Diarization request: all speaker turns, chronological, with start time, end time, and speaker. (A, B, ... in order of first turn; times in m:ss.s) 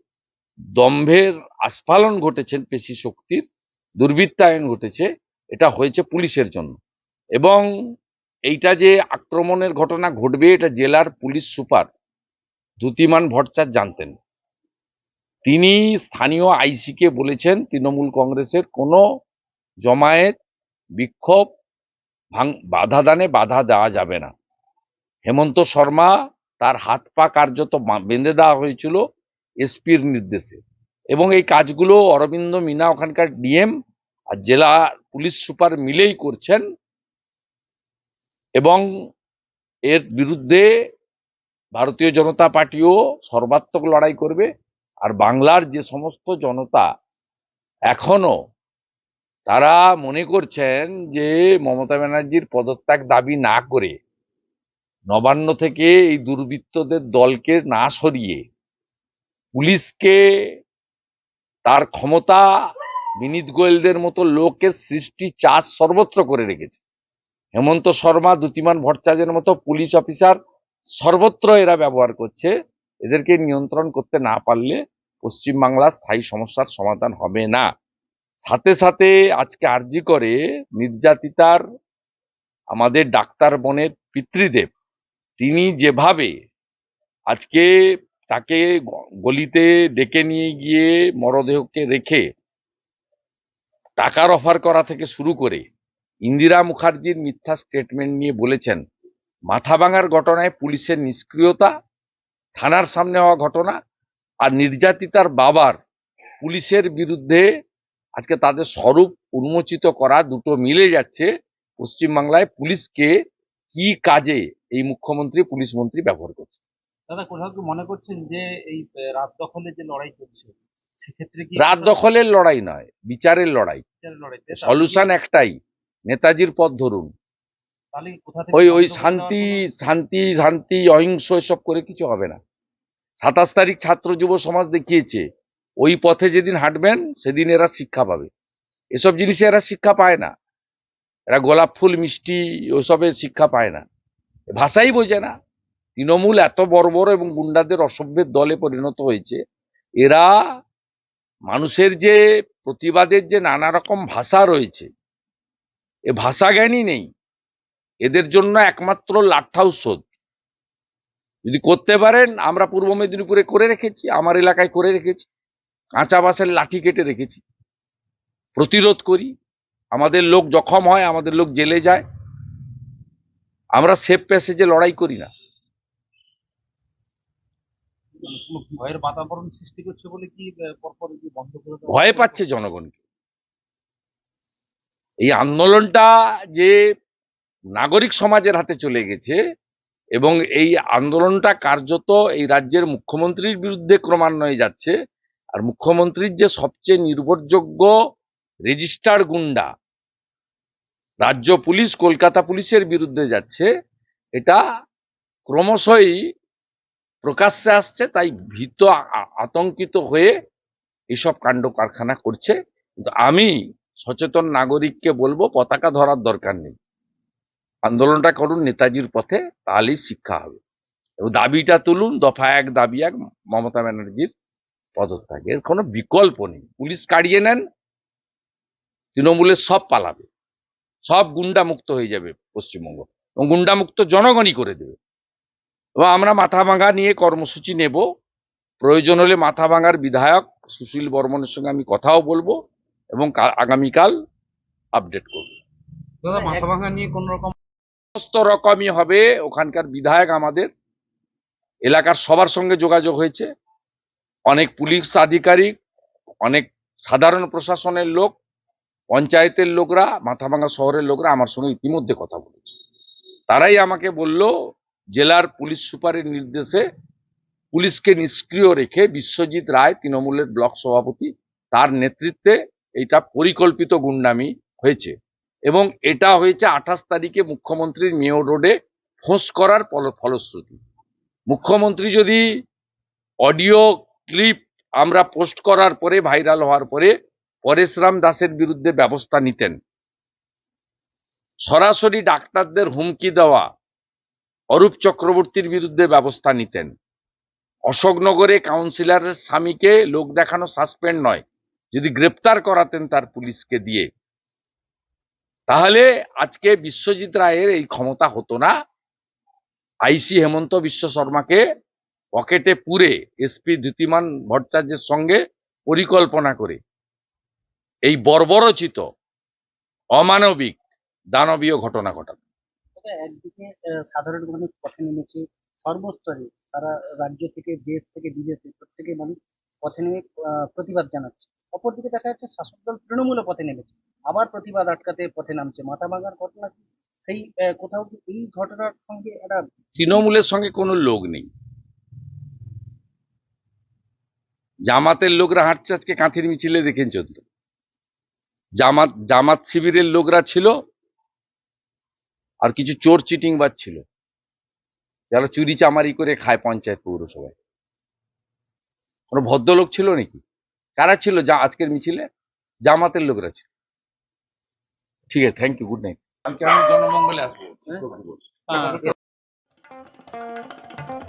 0:00.8-0:03.4 A
0:04.0-0:06.8 A
0:07.4-0:07.6 A
0:08.5-0:11.9 A
0:12.8-0:14.2 A
0:15.4-0:19.0 A
0:19.8-0:20.4 A
0:21.0-0:21.4 A
0:22.3-0:24.3 A
0:25.2-0:29.0 A
0:29.6-0:30.6 A
0:31.1-0:33.7 A
0:34.3-0:36.6 A
0:38.6-0:38.8 A
0:39.9-0:40.6 A
0:41.8-0:44.5 A
0:45.0-0:46.8 A
0:47.9-0:48.3 A
0:49.5-0:53.9 A
0:55.1-0:58.4 A
0:59.5-1:00.2 A
1:01.6-1:02.4 A
1:03.2-1:06.8 A
1:07.5-1:10.4 A
1:11.0-1:12.5 A
1:13.0-1:17.7 A
1:18.4-1:21.6 A
1:22.7-1:24.7 A
1:25.4-1:26.3 A
1:27.3-1:27.7 A
1:28.3-1:32.2 A
1:34.0-1:35.6 A
1:36.2-1:38.8 A
1:39.5-1:41.7 A
1:42.6-1:43.8 A
1:44.4-1:45.8 A
1:46.4-1:47.4 A
1:48.2-1:51.3 A
1:51.8-1:53.1 A
1:53.7-1:56.6 A
1:57.1-2:02.0 B
2:01.6-2:03.8 A
2:04.0-2:05.1 B
2:04.5-2:05.5 A
2:06.1-2:07.1 A
2:07.9-2:09.6 B
2:08.5-2:12.4 A
2:13.2-2:15.2 A
2:15.8-2:18.3 A
2:18.9-2:20.3 A
2:21.3-2:23.8 A
2:24.5-2:25.3 A
2:26.0-2:29.4 A
2:30.0-2:30.3 A
2:31.5-2:34.9 A
2:36.1-2:37.1 A
2:38.0-2:40.0 A
2:41.4-2:45.3 A
2:46.0-2:47.4 A
2:48.6-2:49.3 A
2:49.9-2:52.0 A
2:53.8-2:55.3 A
2:58.2-2:58.9 C
2:58.3-3:02.0 B
3:01.1-3:02.4 C
3:01.9-3:03.0 A
3:05.2-3:06.8 A
3:07.8-3:09.4 A
3:10.2-3:14.9 A
3:15.6-3:17.9 A
3:18.7-3:19.7 A
3:21.2-3:23.7 A
3:25.5-3:26.2 A
3:27.2-3:30.3 A
3:31.1-3:36.8 A
3:37.8-3:40.6 A
3:41.2-3:44.3 A
3:45.0-3:47.6 A
3:49.1-3:50.3 A
3:51.0-3:55.0 A
3:56.0-3:58.0 A
3:58.8-4:02.6 A
4:03.2-4:04.1 A
4:05.0-4:05.5 A
4:06.2-4:07.5 B
4:06.3-4:06.7 C
4:08.2-4:10.7 A
4:11.8-4:13.5 A
4:14.5-4:15.7 A
4:16.4-4:18.3 A
4:19.1-4:22.7 A
4:23.5-4:24.5 A
4:25.2-4:26.8 A
4:27.7-4:35.1 A
4:35.7-4:38.7 A
4:39.2-4:40.8 A
4:41.5-4:42.4 A
4:43.4-4:47.1 A
4:47.6-4:49.8 A
4:51.6-4:53.6 A
4:54.7-4:56.9 A
4:57.9-5:04.1 A
5:05.7-5:08.7 A
5:10.0-5:11.6 A
5:12.4-5:16.8 A
5:18.1-5:19.0 A
5:20.2-5:20.8 A
5:21.3-5:22.4 A
5:23.0-5:39.6 C
5:40.0-5:41.5 A
5:44.9-5:47.4 A
5:48.8-5:50.7 A
5:52.6-5:54.0 A
5:55.3-5:57.5 A
5:59.3-6:00.4 A
6:01.0-6:02.2 A
6:02.9-6:03.7 A
6:05.3-6:09.1 A